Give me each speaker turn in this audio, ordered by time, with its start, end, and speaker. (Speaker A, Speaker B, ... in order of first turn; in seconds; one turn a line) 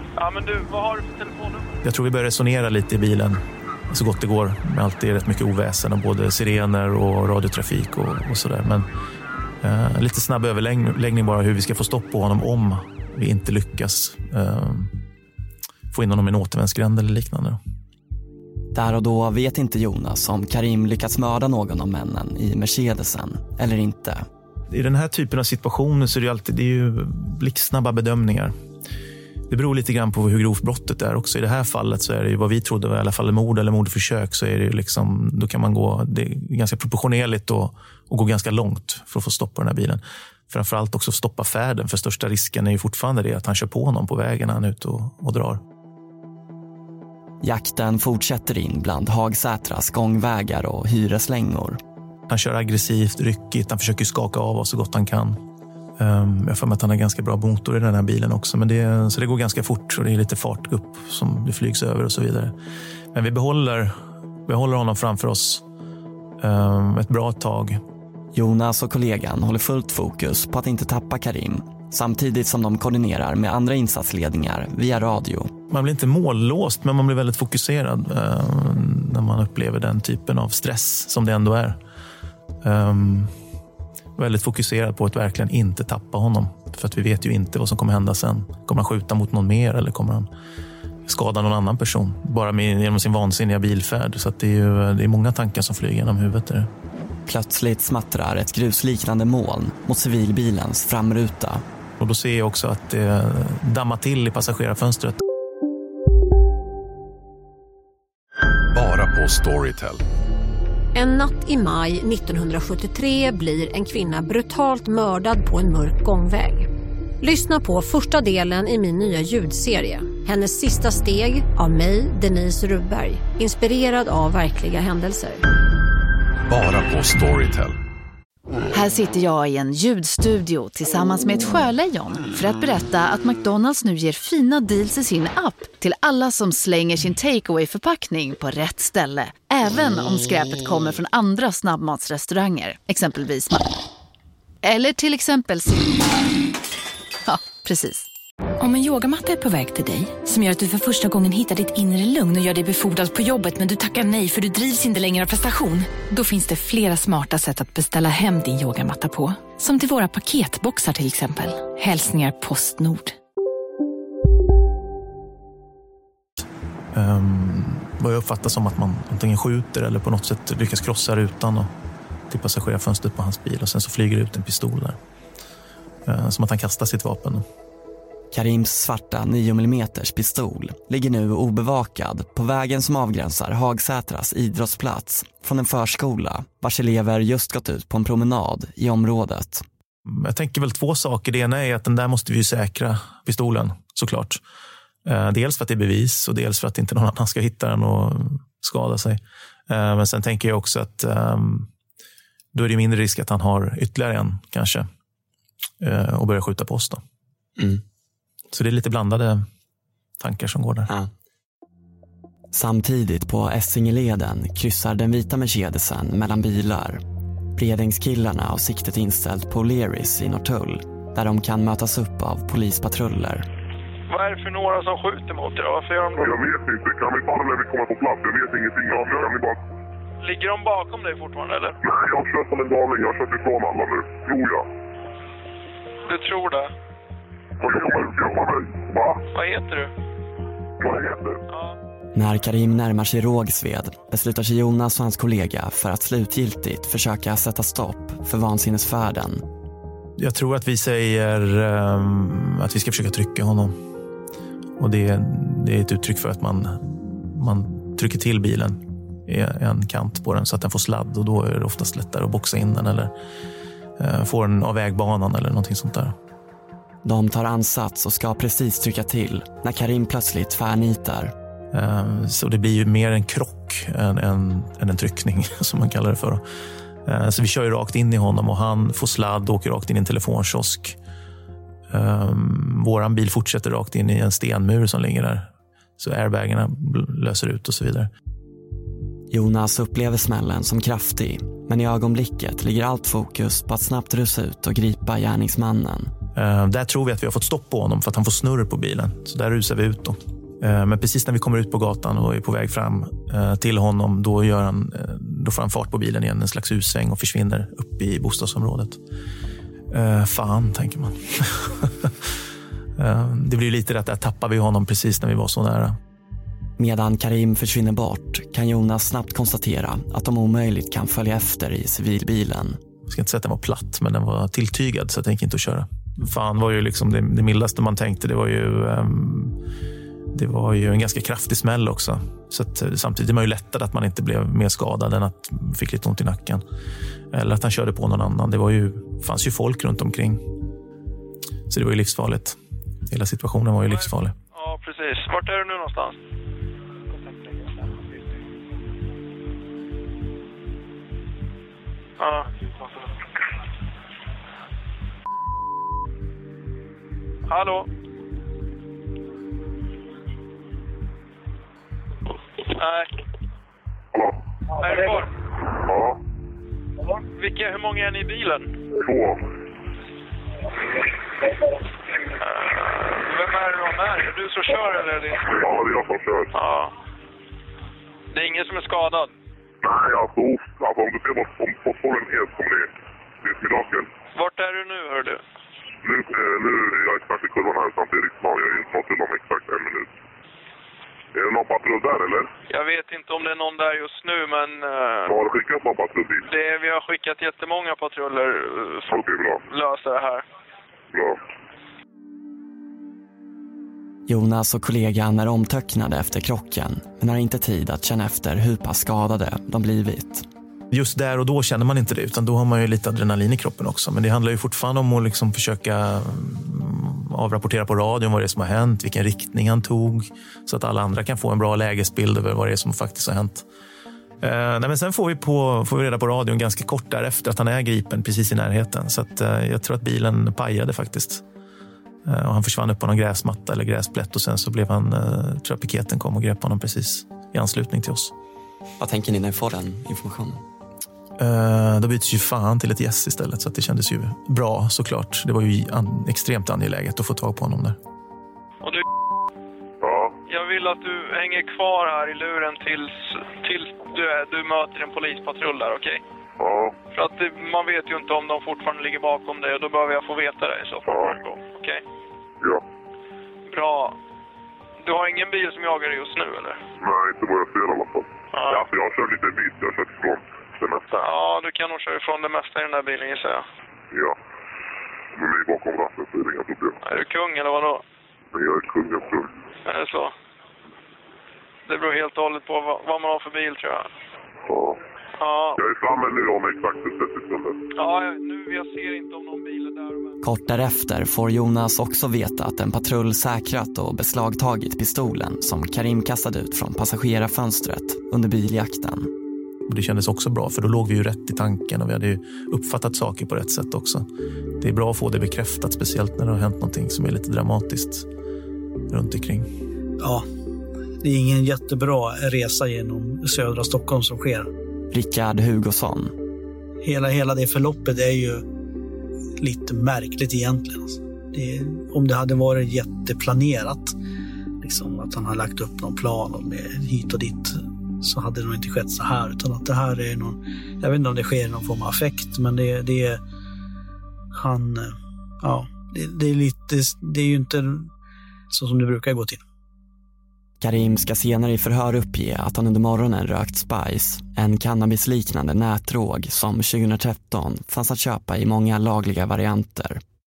Speaker A: 0.2-1.7
Speaker B: 1.8-8.9
Speaker B: 9.6-15.0
Speaker B: 15.9-17.6
Speaker C: 18.7-24.3
Speaker B: 24.7-28.5
Speaker B: 29.5-45.6
Speaker C: 47.4-51.8
Speaker B: 52.3-55.4
Speaker B: 56.0-62.5
Speaker B: 63.1-65.7
Speaker B: 66.4-67.8
Speaker C: 68.3-75.5
Speaker B: 75.7-81.8
Speaker B: 82.6-83.3
Speaker B: 84.2-90.3
Speaker B: 91.1-96.7
Speaker C: 97.3-101.6
Speaker B: 102.0-105.2
Speaker D: 108.7-110.0
Speaker E: 110.9-116.7
Speaker E: 117.2-125.4
Speaker D: 126.5-127.8
Speaker F: 128.7-143.7
Speaker F: 144.6-146.0
Speaker F: 147.3-148.1
Speaker G: 148.6-163.2
Speaker B: 166.9-171.7
Speaker B: 172.3-175.0
Speaker B: 176.1-177.4
Speaker C: 178.3-189.7
Speaker B: 190.1-194.4
Speaker B: 195.1-201.7
Speaker B: 202.5-204.9
Speaker B: 205.8-207.0
Speaker B: 208.5-209.5
Speaker B: 210.2-210.9
Speaker C: 212.5-217.0
Speaker C: 217.6-223.4
Speaker A: 224.1-226.4
Speaker H: 226.2-229.6
Speaker A: 230.2-231.8
Speaker H: 231.8-234.7
Speaker A: 236.1-236.7
Speaker H: 237.6-239.2
Speaker A: 239.3-239.9
Speaker H: 240.8-241.4
Speaker A: 241.5-241.8
Speaker C: 242.1-249.4
Speaker B: 250.2-253.8
Speaker B: 254.8-263.1
Speaker B: 264.0-266.1
Speaker C: 267.0-271.3
Speaker B: 271.7-276.4
Speaker B: 277.1-281.0
Speaker B: 281.9-288.1
Speaker C: 289.3-296.1
Speaker B: 296.4-309.0
Speaker B: 309.9-312.3
Speaker B: 313.0-316.0
Speaker C: 316.8-322.8
Speaker B: 323.1-329.6
Speaker B: 330.3-336.6
Speaker B: 337.3-340.4
Speaker B: 341.7-344.4
Speaker A: 344.5-346.2
Speaker A: 352.2-352.5
Speaker A: 357.5-357.9
Speaker A: 362.7-363.1
Speaker A: 364.8-365.3
Speaker H: 365.9-366.2
Speaker A: 367.3-368.8
Speaker H: 369.0-369.4
Speaker A: 372.4-375.5
Speaker H: 375.5-376.5
Speaker A: 376.5-376.9
Speaker A: 378.3-379.3
Speaker H: 379.8-382.9
Speaker H: 383.4-384.1
Speaker A: 384.4-385.4
Speaker H: 386.0-390.1
Speaker H: 391.3-392.5
Speaker A: 392.7-395.4
Speaker H: 395.3-396.5
Speaker A: 396.5-399.1
Speaker H: 399.1-399.6
Speaker A: 399.7-400.4
Speaker H: 401.1-401.4
Speaker C: 404.3-410.4
Speaker B: 410.9-423.7
Speaker B: 424.4-431.4
Speaker B: 432.2-438.3
Speaker C: 439.0-440.6
Speaker B: 441.4-448.0
Speaker H: 450.0-450.4
Speaker A: 450.5-456.2
Speaker H: 456.6-456.9
Speaker A: 457.1-462.0
Speaker H: 461.1-461.4
Speaker A: 463.7-464.2
Speaker A: 465.0-466.8
Speaker H: 467.0-471.1
Speaker A: 468.5-468.9
Speaker A: 471.1-473.6
Speaker H: 475.4-477.0
Speaker A: 477.0-478.0
Speaker H: 478.5-479.5
Speaker A: 479.9-480.3
Speaker A: 481.9-484.1
Speaker H: 484.7-485.0
Speaker A: 485.4-485.8
Speaker H: 485.8-487.8
Speaker A: 488.0-490.3
Speaker C: 490.4-499.3
Speaker B: 499.9-504.3
Speaker B: 504.8-508.3
Speaker B: 509.1-509.7
Speaker I: 510.2-510.4
Speaker I: 511.2-514.7
Speaker C: 515.1-516.3
Speaker I: 517.0-518.6
Speaker I: 519.6-524.1
Speaker I: 524.8-533.4
Speaker I: 534.5-538.1
Speaker I: 538.7-539.6
Speaker C: 540.8-550.2